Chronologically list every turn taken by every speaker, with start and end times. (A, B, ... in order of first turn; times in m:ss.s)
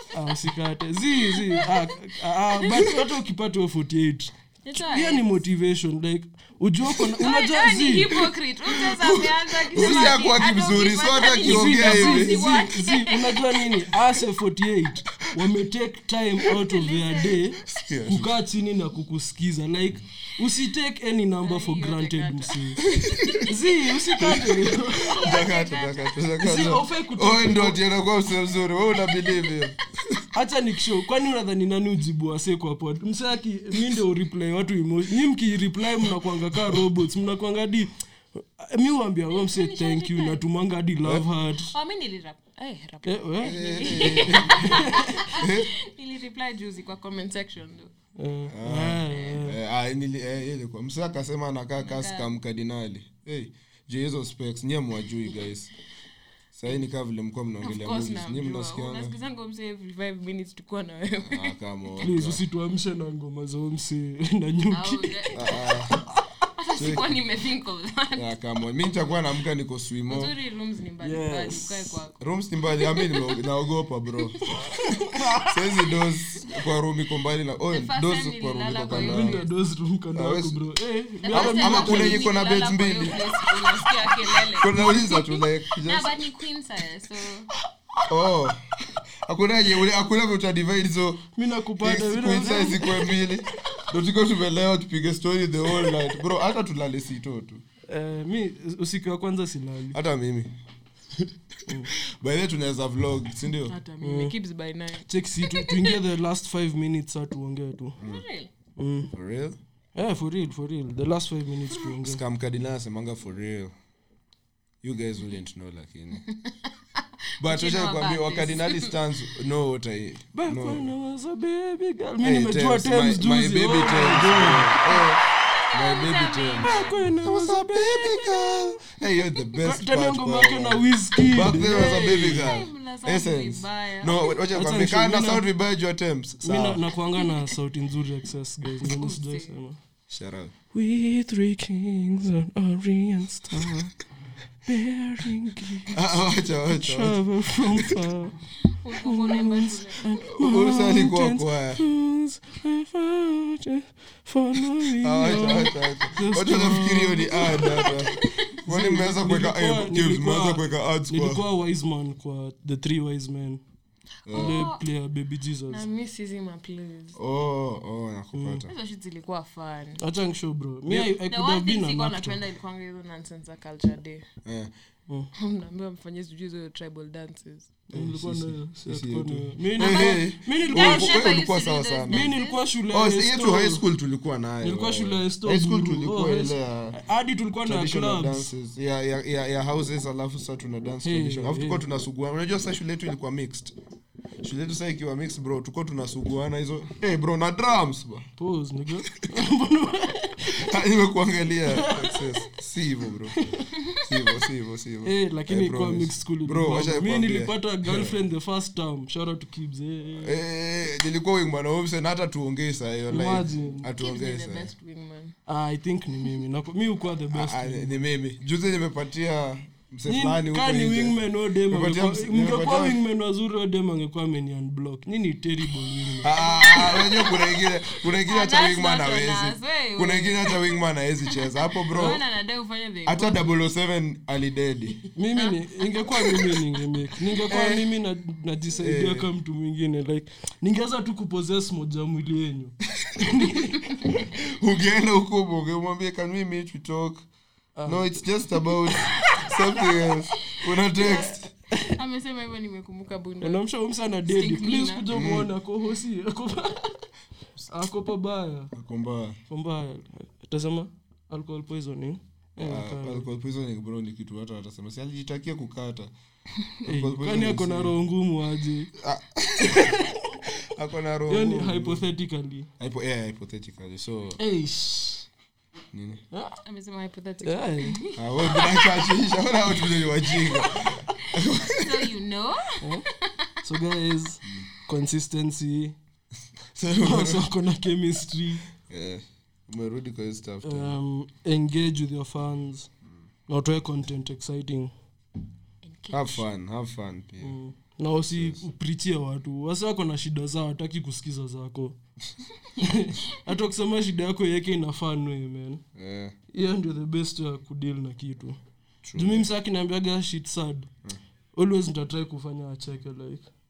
0:00.1-0:08.2 A
0:01.1-0:01.8 B
0:02.5-0:02.8 B
0:04.6-0:05.4 B
0:07.2-0:13.6 B
0:08.7-0:12.4 C
0:09.8-0:10.2 A
0:11.4-0:22.8 A
0:16.7-0:17.5 B
0:17.7-0:18.4 C
0:21.4-0:23.4 B
0:23.0-0:23.4 C
0:23.4-0:25.1 A
0:24.2-0:24.5 C
0:25.0-0:26.2 B
0:25.1-0:30.2 C
0:26.4-0:27.8 A
0:30.3-0:41.7 A
0:39.3-0:40.4 B
0:41.7-0:47.9 B
0:43.0-0:45.1 A
0:43.4-0:44.8 C
0:45.3-0:45.7 C
0:48.2-0:49.6 A
0:48.5-0:55.7 C
0:49.1-0:49.4 B
0:51.8-0:52.3 B
0:56.5-0:59.1 C
0:57.6-1:01.5 B
1:01.2-1:02.4 C
1:02.0-1:05.3 A
1:04.7-1:05.6 B
1:05.3-1:06.0 C
1:06.6-1:08.3 B
1:06.8-1:07.0 C
1:08.2-1:10.3 C
1:10.1-1:12.3 B
1:11.0-1:12.0 A
1:12.2-1:14.4 C
1:12.8-1:13.4 B
1:14.6-1:15.8 A
1:15.4-1:19.4 C
1:17.7-1:19.5 B
1:18.9-1:22.2 A
1:20.1-1:20.6 C
1:21.2-1:27.5 B
1:21.3-1:23.6 C
1:24.5-1:26.3 C
1:28.1-1:31.3 C
1:31.4-1:33.2 A
1:31.8-1:37.6 C
1:37.9-1:40.0 A
1:39.9-1:40.5 C
1:41.1-1:43.8 C
1:41.7-1:41.9 A
1:43.7-1:46.0 B
1:44.0-1:44.3 A
1:45.0-1:48.0 A
1:48.0-1:48.5 B
1:48.8-1:49.1 A
1:49.1-1:49.6 C
1:49.9-1:52.2 A
1:52.0-1:53.7 C
1:54.8-1:56.2 C
1:56.3-1:58.9 B
1:57.4-2:00.9 C
2:00.3-2:04.8 A
2:02.2-2:05.2 C
2:04.8-2:07.0 B
2:05.7-2:16.8 C
2:06.6-2:08.2 A
2:09.6-2:12.5 A
2:11.4-2:14.4 B
2:14.5-2:15.4 A
2:16.4-2:19.8 A
2:18.8-2:19.5 B
2:20.1-2:20.5 C
2:20.7-2:23.9 A
2:24.6-2:26.2 A
2:25.9-2:27.3 C
2:26.8-2:28.4 A
2:28.7-2:30.2 B
2:29.0-2:43.6 A
2:30.2-2:31.8 C
2:35.0-2:41.4 C
2:37.8-2:38.2 B
2:44.2-2:44.7 C
2:44.3-2:44.8 B
2:44.3-2:45.8 A
2:45.7-2:47.2 B
2:47.2-2:48.7 C
2:48.3-2:48.6 A
2:48.7-2:50.0 B
2:50.0-2:52.4 A
2:50.9-2:54.2 B
2:54.4-2:54.7 C
2:55.4-2:57.7 B
2:57.9-3:02.3 C
2:57.9-3:01.3 A
2:59.8-3:02.6 B
3:02.1-3:03.8 A
3:02.9-3:07.0 C
3:04.6-3:08.5 A
3:07.6-3:13.7 C
3:11.0-3:11.8 A
3:14.4-3:18.3 C
3:18.4-3:20.7 A
3:20.5-3:23.4 C
3:21.7-3:22.4 A
3:24.0-3:28.2 C
3:25.0-3:30.4 A
3:30.2-3:34.7 C
3:33.1-3:33.9 A
3:33.8-3:35.4 B
3:35.5-3:38.0 A
3:37.3-3:43.0 C
3:40.0-3:46.4 A
3:46.2-3:52.2 C
3:46.4-3:53.4 B
3:53.0-3:55.0 C
3:55.0-3:56.6 B
3:55.2-4:03.8 A
3:57.5-3:57.8 C
3:58.8-3:59.3 C
4:04.3-4:07.2 C
4:07.8-4:08.2 A
4:07.8-4:11.5 C
4:11.0-4:11.9 A
4:11.9-4:13.6 B
4:13.4-4:17.1 A
4:14.2-4:15.0 B
4:15.1-4:15.5 C
4:17.7-4:18.7 A
4:18.7-4:19.4 C
4:19.5-4:23.3 A
4:22.6-4:26.1 C
4:26.8-4:28.0 C
4:26.8-4:28.9 A
4:29.0-4:29.9 C
4:29.7-4:30.2 A
4:30.7-4:32.0 C
4:31.3-4:32.7 A
4:32.8-4:34.4 C
4:34.4-4:35.3 A
4:35.9-4:36.2 C
4:36.3-4:36.6 A
4:36.6-4:39.2 B
4:37.4-4:38.0 A
4:38.2-4:42.1 C
4:40.6-4:43.4 B
4:43.6-4:46.0 A
4:46.7-4:47.4 C
4:47.0-4:48.6 A
4:48.8-4:51.0 C
4:50.6-4:52.9 A
4:53.5-4:54.9 A
4:55.8-4:56.4 B
4:56.1-4:57.6 C
4:57.4-5:02.0 A
4:58.1-4:58.6 C
5:02.8-5:05.8 A
5:05.9-5:06.3 C
5:06.5-5:08.6 A
5:09.0-5:09.5 C
5:09.1-5:10.9 A
5:11.6-5:13.5 A